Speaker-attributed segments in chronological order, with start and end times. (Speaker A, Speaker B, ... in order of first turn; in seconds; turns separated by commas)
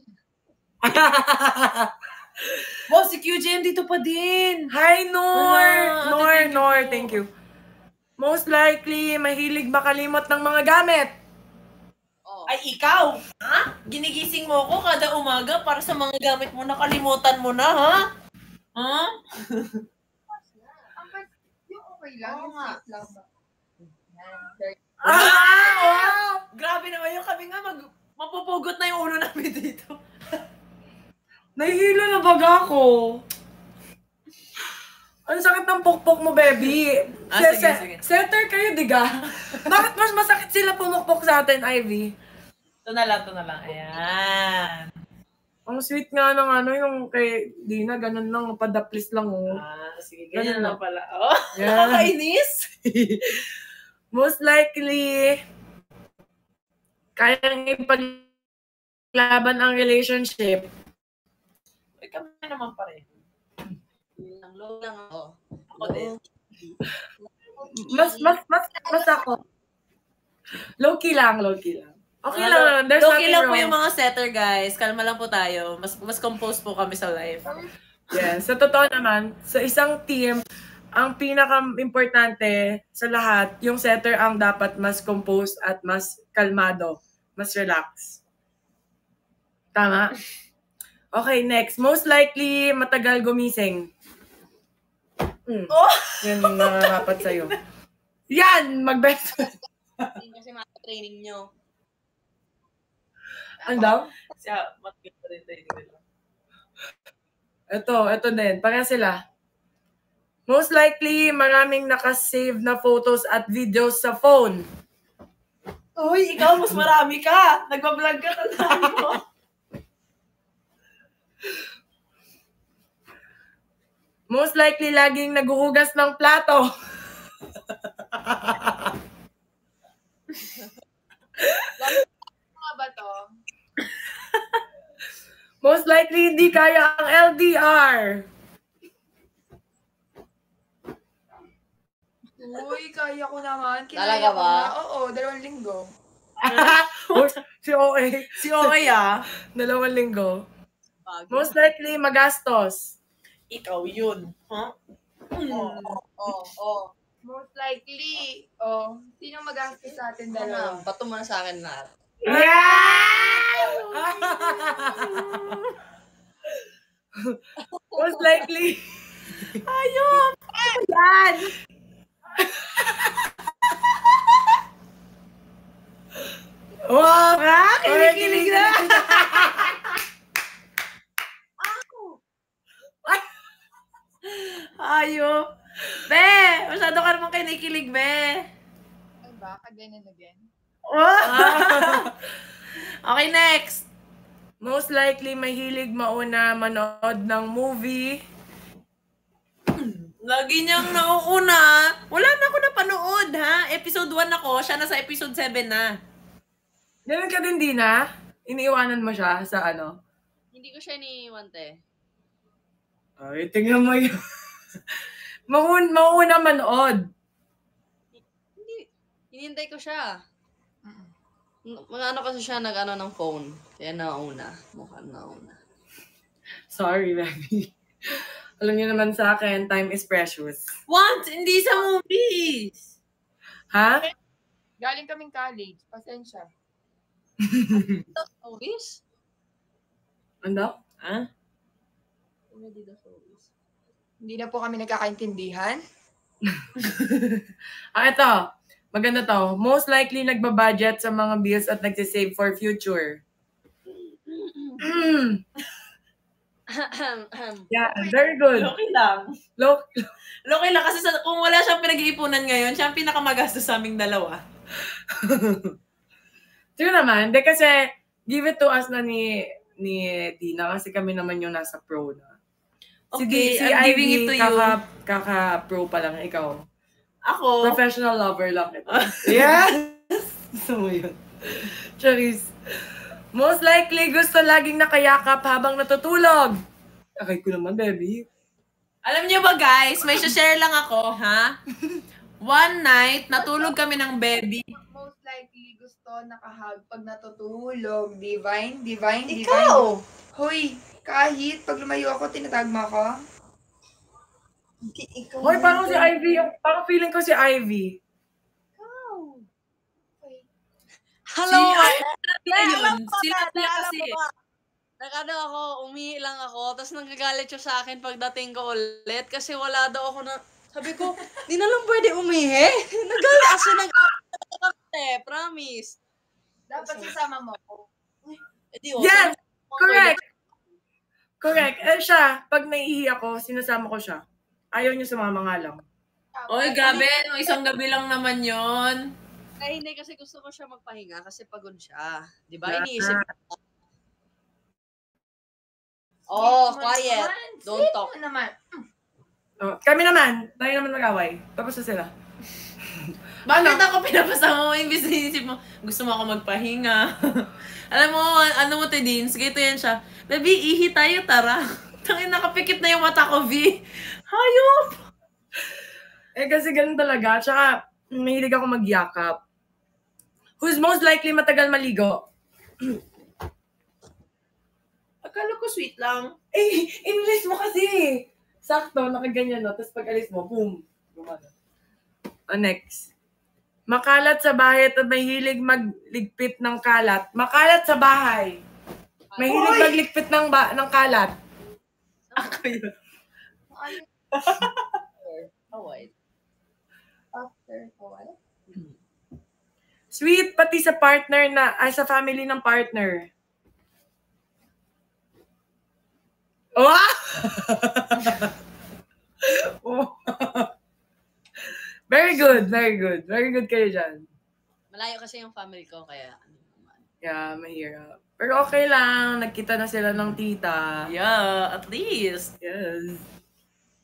Speaker A: 0.8-2.8, Speaker B: 2.9-4.7, Speaker A: 4.7-7.3, Speaker B: 5.3-7.2, Speaker A: 8.2-11.1, Speaker C: 12.2-12.5, Speaker B: 12.5-18.0, Speaker B: 18.8-19.8, Speaker D: 21.0-23.2, Speaker C: 22.2-22.8, Speaker D: 24.1-25.1, Speaker B: 25.0-30.0, Speaker A: 25.1-26.4, Speaker A: 31.6-33.2, Speaker A: 35.3-42.1, Speaker B: 37.3-38.0, Speaker B: 42.9-44.9, Speaker A: 45.7-49.6, Speaker B: 49.5-52.7, Speaker A: 50.3-50.8, Speaker A: 51.5-52.1, Speaker A: 52.8-55.4, Speaker A: 57.2-58.3, Speaker A: 59.1-60.7, Speaker B: 62.0-63.0, Speaker C: 64.2-66.2, Speaker B: 65.7-66.2, Speaker D: 67.6-68.3, Speaker A: 67.7-69.4, Speaker A: 70.8-73.7, Speaker B: 72.3-77.4, Speaker A: 78.1-80.4, Speaker A: 81.0-88.2, Speaker A: 89.8-90.1, Speaker A: 91.1-93.9, Speaker A: 95.5-97.5, Speaker B: 95.7-97.6, Speaker A: 98.3-100.2, Speaker C: 99.4-101.5, Speaker D: 103.6-104.0, Speaker A: 103.7-104.1, Speaker B: 104.4-106.0, Speaker A: 107.7-109.2, Speaker A: 110.5-114.7, Speaker B: 116.0-119.2, Speaker A: 116.5-116.8, Speaker A: 118.6-119.1, Speaker A: 124.3-126.7, Speaker A: 128.0-128.9, Speaker A: 131.4-132.0, Speaker D: 131.8-133.3, Speaker A: 135.6-138.3, Speaker D: 142.4-145.9, Speaker C: 143.9-144.7, Speaker A: 146.4-148.8, Speaker B: 146.5-147.3, Speaker B: 148.4-149.2, Speaker A: 149.5-150.4, Speaker C: 151.1-151.6, Speaker A: 151.3-152.9, Speaker B: 153.5-154.7, Speaker B: 155.3-155.9, Speaker C: 155.6-156.9, Speaker D: 157.2-160.8, Speaker C: 160.3-161.9, Speaker B: 162.2-165.7, Speaker A: 162.3-165.6, Speaker C: 167.7-168.3, Speaker A: 167.9-169.6, Speaker B: 169.6-171.4, Speaker A: 172.4-174.1, Speaker A: 176.9-179.8, Speaker B: 177.4-179.7, Speaker C: 181.6-182.2, Speaker B: 184.3-185.4, Speaker B: 186.1-188.4, Speaker D: 189.2-190.4, Speaker B: 190.9-192.1, Speaker A: 191.2-192.2, Speaker B: 193.1-193.8, Speaker A: 194.6-198.2, Speaker B: 199.8-205.9, Speaker A: 207.1-209.9, Speaker C: 210.5-211.8, Speaker A: 213.2-214.2, Speaker A: 215.5-217.1, Speaker C: 218.1-220.2, Speaker D: 220.8-221.1, Speaker C: 221.7-225.6, Speaker A: 226.7-230.7, Speaker B: 230.9-232.9, Speaker A: 233.7-234.1, Speaker D: 234.8-236.5, Speaker A: 237.4-237.9, Speaker C: 238.1-239.0, Speaker A: 240.4-240.8, Speaker C: 242.5-243.5, Speaker D: 244.2-245.8, Speaker A: 246.4-247.4, Speaker A: 247.9-248.4, Speaker A: 248.9-253.2, Speaker C: 253.9-254.8, Speaker A: 254.8-255.4, Speaker C: 256.7-257.7, Speaker A: 257.7-258.7, Speaker B: 258.6-259.3, Speaker A: 259.6-260.1, Speaker B: 260.5-264.4, Speaker A: 264.8-265.8, Speaker A: 266.8-272.3, Speaker B: 273.1-274.8, Speaker A: 273.2-276.6, Speaker B: 277.3-277.8, Speaker A: 277.6-282.5, Speaker B: 278.9-279.6, Speaker A: 283.3-286.6, Speaker A: 287.2-288.3, Speaker B: 289.1-291.6, Speaker B: 292.4-294.7, Speaker D: 293.4-293.8, Speaker D: 294.8-303.2, Speaker B: 299.3-299.6, Speaker D: 304.9-306.1, Speaker A: 305.4-308.0, Speaker C: 308.8-309.5, Speaker D: 310.2-310.4, Speaker C: 311.3-314.3, Speaker B: 311.5-314.2, Speaker C: 315.0-326.0, Speaker D: 326.7-327.9, Speaker C: 326.8-327.1, Speaker C: 328.3-330.2, Speaker A: 329.0-330.2, Speaker A: 331.4-334.2, Speaker A: 334.7-335.8, Speaker D: 336.3-337.6, Speaker B: 336.5-339.1, Speaker C: 339.6-343.6, Speaker A: 342.6-343.3, Speaker C: 346.3-348.1, Speaker D: 346.3-348.8, Speaker A: 349.6-352.1, Speaker A: 352.9-353.8, Speaker B: 353.4-363.8, Speaker B: 364.3-364.9, Speaker A: 366.4-369.4, Speaker A: 370.6-372.2, Speaker B: 375.2-376.3, Speaker A: 376.5-381.5, Speaker A: 382.5-383.1, Speaker A: 383.9-388.6, Speaker C: 389.3-389.9, Speaker A: 389.4-391.3, Speaker D: 389.5-389.9, Speaker C: 392.3-392.7, Speaker B: 392.4-392.9, Speaker D: 393.7-394.1, Speaker B: 394.4-394.9, Speaker C: 395.2-396.1, Speaker D: 397.3-398.4, Speaker A: 400.1-403.3, Speaker A: 406.8-408.5, Speaker A: 409.4-410.7, Speaker A: 411.6-414.2, Speaker C: 414.9-417.1, Speaker A: 417.2-421.0, Speaker B: 421.1-422.5, Speaker A: 422.6-423.2